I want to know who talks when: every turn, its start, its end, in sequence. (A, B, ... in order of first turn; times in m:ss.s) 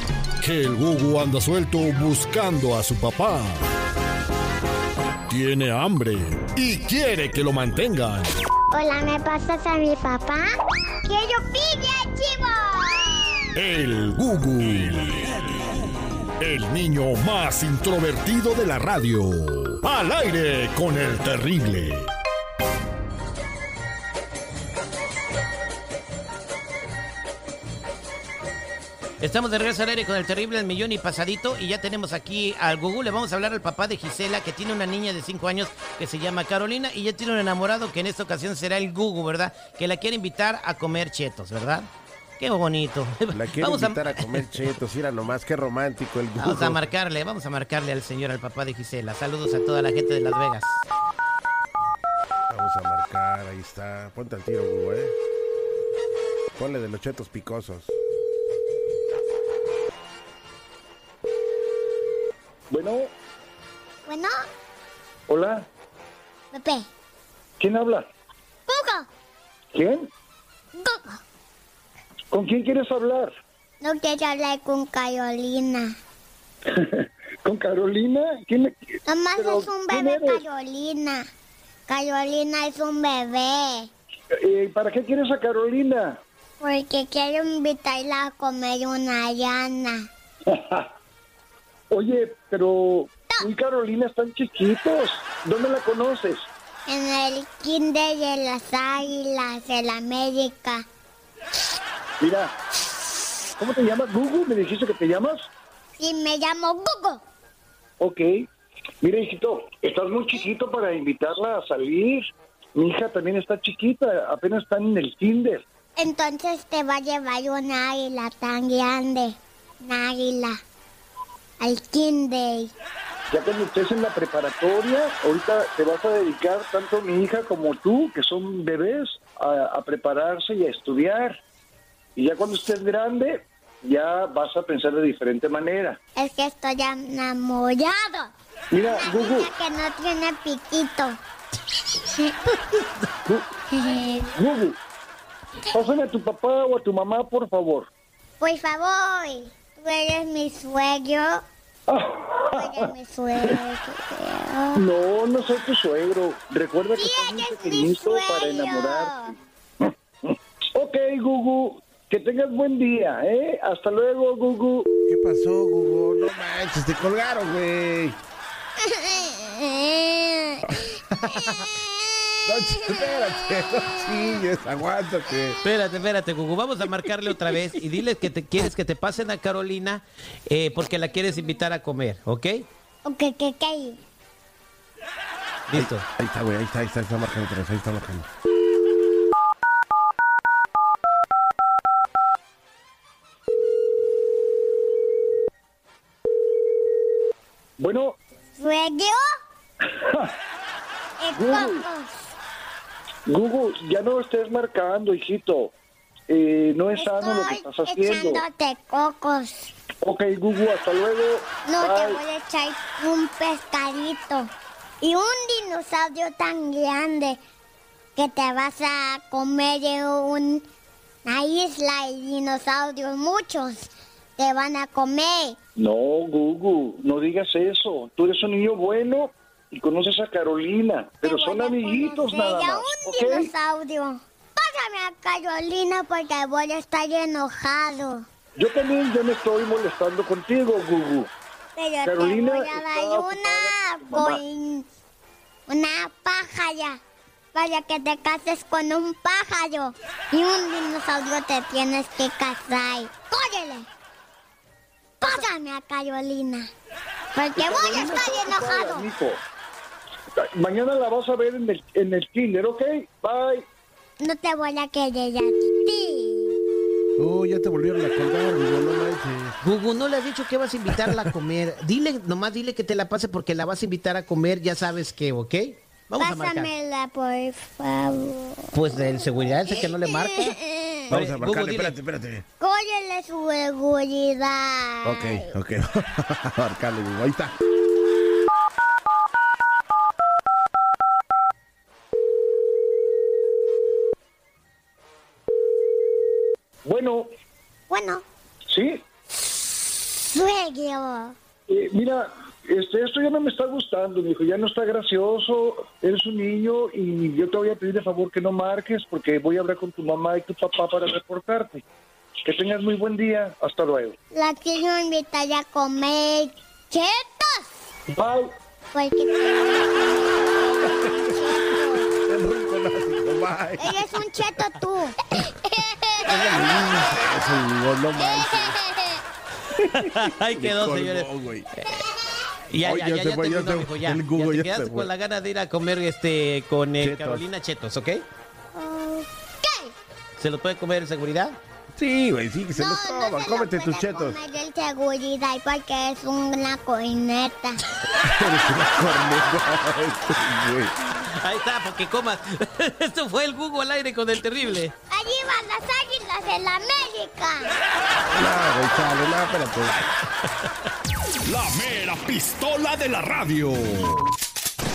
0:00.4-0:03.6 A
0:05.3-0:08.3 A
0:08.7-0:10.5 B
0:11.0-0:13.5 B
0:13.6-0:15.4 A
0:16.4-0:22.1 A
0:29.2-0:44.6 C
0:43.3-0:46.9 D
0:46.4-0:50.8 C
0:52.5-0:55.1 D
0:56.6-0:57.9 D
1:02.7-1:03.1 E
1:04.1-1:04.4 B
1:05.3-1:05.7 E
1:06.5-1:06.9 B
1:07.6-1:08.1 E
1:08.7-1:09.1 B
1:09.7-1:10.1 E
1:10.8-1:11.2 B
1:12.3-1:13.3 E
1:13.8-1:15.9 B
1:16.7-1:18.7 E
1:19.1-1:21.2 B
1:19.4-1:20.4 E
1:21.9-1:23.9 B
1:24.4-1:26.2 E
1:26.6-1:30.0 B
1:30.5-1:30.9 E
1:31.9-1:36.5 E
1:36.9-1:40.8 B
1:42.2-1:42.5 E
1:43.6-1:45.5 E
1:46.0-1:47.2 B
1:48.0-1:48.3 E
1:49.0-1:52.2 E
1:52.8-1:55.6 E
1:56.0-2:00.6 B
2:01.6-2:02.7 B
2:03.3-2:11.4 E
2:12.2-2:16.0 E
2:16.2-2:18.3 B
2:18.7-2:19.5 E
2:18.9-2:21.2 B
2:22.0-2:22.3 B
2:23.7-2:24.3 B
2:24.4-2:24.8 E
2:25.7-2:27.9 E
2:28.4-2:31.4 B
2:31.9-2:32.9 E
2:32.5-2:34.8 B
2:34.8-2:39.2 E
2:37.0-2:39.3 B
2:40.2-2:44.9 E
2:45.1-2:48.2 D
2:48.8-2:50.8 B
2:50.7-2:51.5 D
2:52.4-2:55.6 D
2:55.6-3:02.6 C
3:03.0-3:04.0 B
3:05.7-3:06.0 C
3:05.7-3:08.3 D
3:17.8-3:18.2 E
3:18.6-3:19.3 B
3:19.9-3:20.3 E
3:21.2-3:22.3 B
3:21.3-3:21.9 E
3:23.3-3:25.7 E
3:26.3-3:28.4 E
3:27.0-3:29.7 B
3:30.0-3:32.2 E
3:31.6-3:34.5 B
3:35.0-3:37.4 B
3:38.2-3:40.6 B
3:41.2-3:45.6 B
3:45.8-3:53.5 E
3:51.2-3:58.2 B
3:58.6-4:01.3 E
4:01.8-4:04.9 B
4:02.0-4:04.4 E
4:05.7-4:07.0 B
4:07.5-4:13.8 B
4:15.2-4:16.7 B
4:17.3-4:19.1 B
4:17.6-4:19.4 E
4:20.4-4:23.6 E
4:24.2-4:26.6 B
4:27.2-4:29.6 D
4:29.6-4:36.7 C
4:30.9-4:31.3 D
4:36.2-4:39.2 B
4:38.7-4:40.6 C
4:40.0-4:41.1 B
4:41.1-4:42.0 C
4:41.1-4:42.4 D
4:42.6-4:45.5 B
4:45.0-4:47.6 D
4:56.8-4:57.3 E
4:57.9-4:58.2 B
4:58.7-4:59.0 E
5:00.3-5:01.4 B
5:01.7-5:11.8 E
5:12.4-5:14.2 E
5:14.3-5:17.8 B
5:18.1-5:18.5 E
5:18.9-5:22.1 B
5:21.0-5:21.5 D
5:22.2-5:24.2 D
5:23.8-5:27.0 B
5:26.2-5:28.8 D
5:28.2-5:29.2 B
5:29.8-5:31.7 D
5:29.9-5:31.3 C
5:32.7-5:38.3 C
5:32.8-5:35.1 D
5:37.0-5:37.4 D
5:38.7-5:39.9 B
5:40.4-5:41.6 C
5:42.0-5:44.4 D
5:42.8-5:47.8 B
5:48.1-5:51.1 D
5:51.3-5:54.9 C
5:55.1-5:57.8 B
5:58.3-6:00.1 D
6:01.5-6:04.2 A